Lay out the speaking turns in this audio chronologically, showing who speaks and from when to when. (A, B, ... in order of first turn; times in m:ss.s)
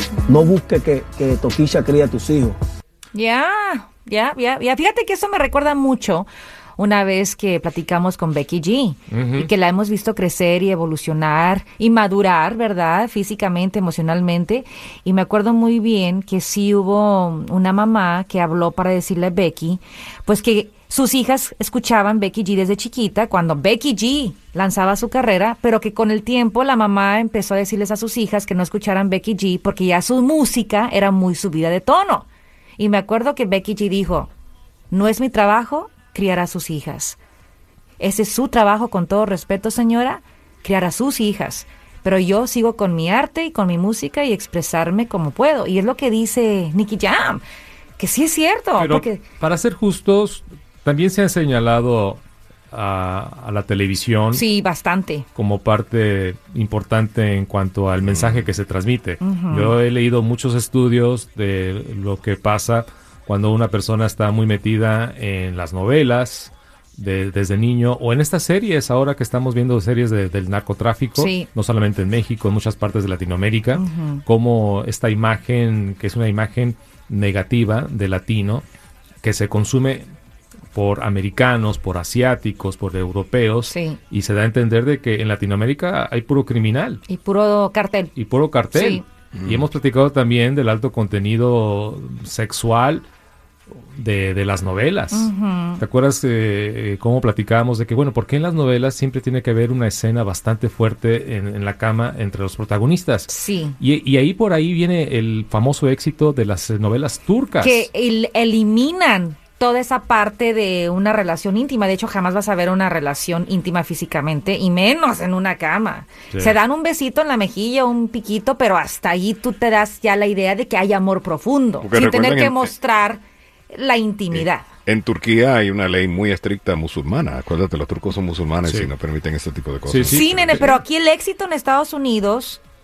0:00.3-0:02.6 A
0:03.1-0:32.3 B
0:09.1-0:09.5 C
0:32.8-0:34.3 B
0:34.9-0:37.2 B
0:38.0-0:47.4 B
0:48.0-0:49.2 B
0:48.8-0:54.4 C
0:54.3-0:55.3 B
0:55.4-1:18.6 C
0:58.0-0:58.4 D
0:59.2-0:59.8 B
1:11.2-1:11.5 B
1:13.8-1:14.2 B
1:19.2-1:20.1 C
1:20.7-1:27.0 C
1:23.7-1:24.0 B
1:27.1-1:28.2 B
1:28.2-1:33.1 C
1:28.7-1:29.0 B
1:29.4-1:29.6 D
1:34.0-1:47.9 C
1:35.1-1:35.8 B
1:43.3-1:43.8 B
1:47.6-2:04.7 B
1:56.3-1:56.6 C
2:01.8-2:02.7 D
2:04.3-2:10.6 D
2:08.6-2:08.9 C
2:09.9-2:10.7 C
2:10.1-2:12.6 B